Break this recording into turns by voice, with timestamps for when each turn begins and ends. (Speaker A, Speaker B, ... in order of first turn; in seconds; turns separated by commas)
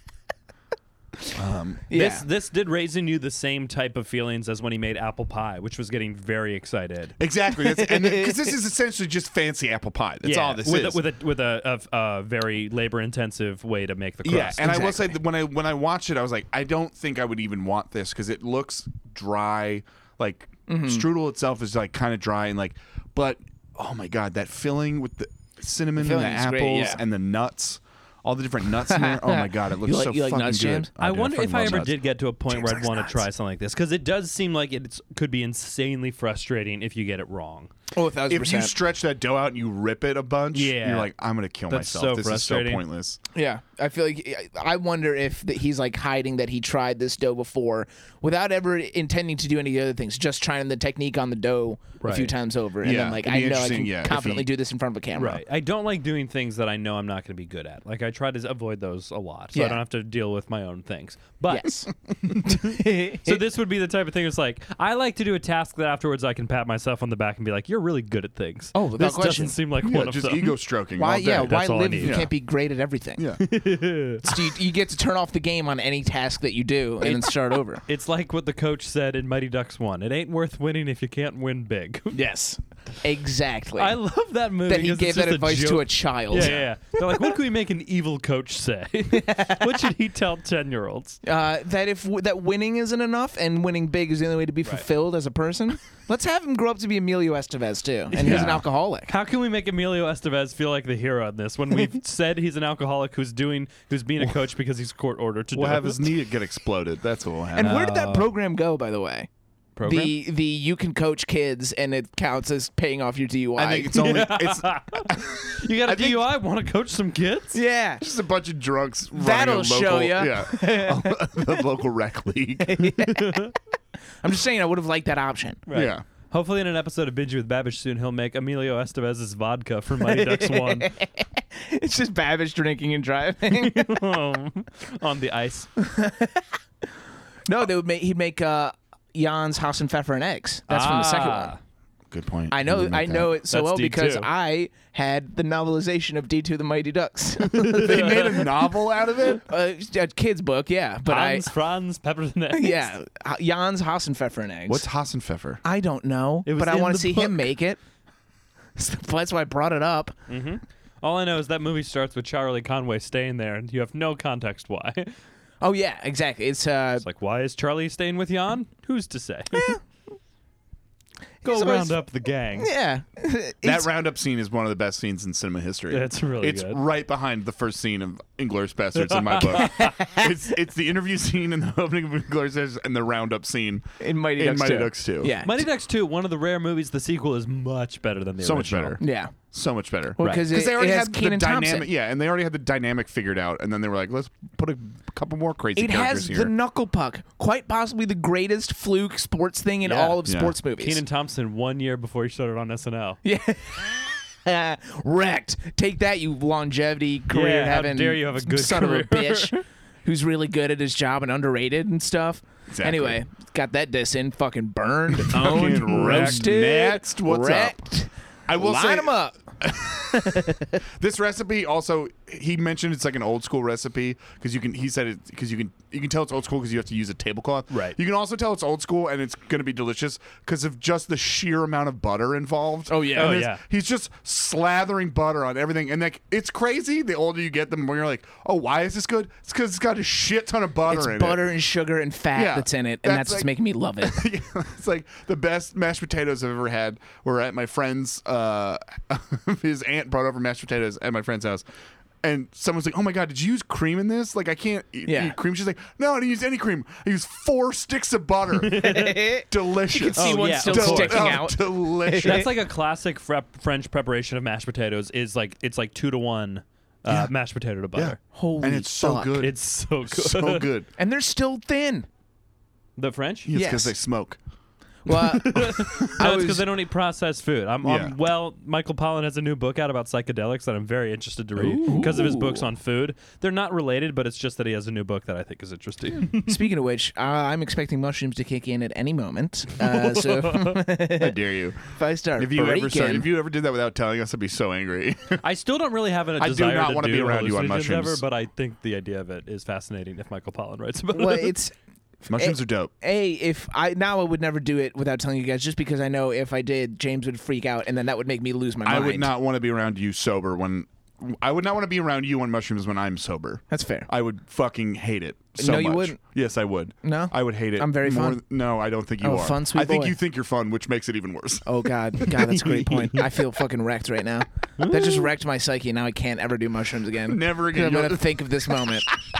Speaker A: 1.3-1.8, Speaker B: 1.9-2.2, Speaker C: 1.9-7.2, Speaker A: 7.2-11.0, Speaker B: 7.5-8.5, Speaker C: 10.2-14.6, Speaker A: 14.2-32.0, Speaker B: 14.6-15.1, Speaker B: 20.7-21.1, Speaker B: 26.0-27.0, Speaker B: 28.9-30.9, Speaker C: 31.0-37.7, Speaker B: 37.9-38.7, Speaker A: 38.3-43.2, Speaker C: 40.5-41.1, Speaker C: 41.7-42.8, Speaker B: 43.3-55.4, Speaker C: 52.0-52.3, Speaker A: 52.8-54.5, Speaker C: 55.1-61.7, Speaker B: 61.5-63.4, Speaker C: 62.5-70.6, Speaker B: 68.7-69.5, Speaker A: 69.8-72.3, Speaker B: 71.0-73.2, Speaker C: 71.1-72.3, Speaker A: 73.2-73.4, Speaker C: 73.4-74.3, Speaker B: 74.2-77.8, Speaker C: 77.0-82.2, Speaker B: 82.1-83.9, Speaker C: 83.8-91.2, Speaker B: 84.7-86.5, Speaker A: 86.3-86.7, Speaker B: 89.2-89.6, Speaker B: 91.2-99.1, Speaker C: 98.1-106.1, Speaker A: 98.2-98.6, Speaker A: 105.5-107.8, Speaker B: 107.5-109.3, Speaker C: 107.6-108.3, Speaker C: 109.8-110.1, Speaker B: 109.8-114.0, Speaker A: 113.6-116.2, Speaker C: 114.0-117.6, Speaker B: 117.5-118.0, Speaker A: 118.0-123.0, Speaker B: 119.2-121.6, Speaker B: 122.6-123.4, Speaker C: 123.0-123.5, Speaker B: 124.2-125.6, Speaker C: 125.7-130.9, Speaker A: 125.7-126.0, Speaker B: 130.1-133.8, Speaker C: 133.4-135.7, Speaker B: 135.8-136.4, Speaker B: 137.5-141.5, Speaker C: 140.7-141.6, Speaker A: 142.1-143.4, Speaker B: 142.5-151.4, Speaker C: 143.4-144.3, Speaker C: 147.6-148.5, Speaker A: 147.6-149.4, Speaker C: 151.0-152.9, Speaker B: 152.6-154.8, Speaker A: 154.7-155.6, Speaker B: 155.6-157.8, Speaker C: 156.4-157.5, Speaker B: 158.8-160.1, Speaker C: 160.3-165.1, Speaker B: 165.6-167.0, Speaker C: 167.0-169.8, Speaker B: 169.5-169.8, Speaker B: 171.4-172.0, Speaker C: 171.4-172.7, Speaker B: 172.6-173.9, Speaker A: 173.6-183.8, Speaker C: 175.9-176.8, Speaker C: 179.1-180.0, Speaker B: 179.8-180.3, Speaker B: 184.0-185.6, Speaker A: 184.4-185.3, Speaker C: 185.4-189.0, Speaker A: 188.4-196.5, Speaker B: 189.0-189.3, Speaker B: 190.2-191.9, Speaker C: 190.2-190.5, Speaker B: 195.8-201.0, Speaker C: 199.8-203.2, Speaker A: 200.2-200.5, Speaker B: 203.2-219.4, Speaker C: 207.3-209.5, Speaker A: 212.7-213.2, Speaker A: 215.2-217.8, Speaker C: 215.9-216.5, Speaker A: 218.5-220.4, Speaker B: 220.1-220.7, Speaker A: 221.0-241.5, Speaker B: 232.9-233.3, Speaker C: 233.1-233.6, Speaker B: 240.9-244.2, Speaker A: 242.3-251.7, Speaker A: 252.2-259.0, Speaker B: 255.1-255.4, Speaker C: 258.5-259.4, Speaker B: 258.8-262.5, Speaker A: 259.5-262.5, Speaker C: 260.1-261.5, Speaker C: 262.2-268.2, Speaker A: 267.9-270.9, Speaker B: 268.3-269.4, Speaker C: 269.4-270.7, Speaker B: 270.9-272.1, Speaker C: 273.0-273.5, Speaker A: 273.4-274.4, Speaker B: 273.5-274.0, Speaker B: 275.1-275.5, Speaker C: 275.1-286.6, Speaker B: 276.1-276.6, Speaker A: 277.8-278.1, Speaker A: 281.6-282.1, Speaker B: 281.8-282.4, Speaker B: 286.4-291.3, Speaker C: 289.8-290.8, Speaker A: 291.1-295.4, Speaker B: 291.9-293.3, Speaker C: 295.4-301.5, Speaker A: 296.4-298.2, Speaker B: 301.2-301.7, Speaker B: 302.3-309.3, Speaker A: 302.3-302.9, Speaker A: 308.8-323.1, Speaker B: 313.7-314.1, Speaker B: 315.6-316.2, Speaker B: 317.0-318.4, Speaker B: 319.2-320.2, Speaker B: 321.6-329.1, Speaker C: 324.8-325.3, Speaker A: 327.3-329.1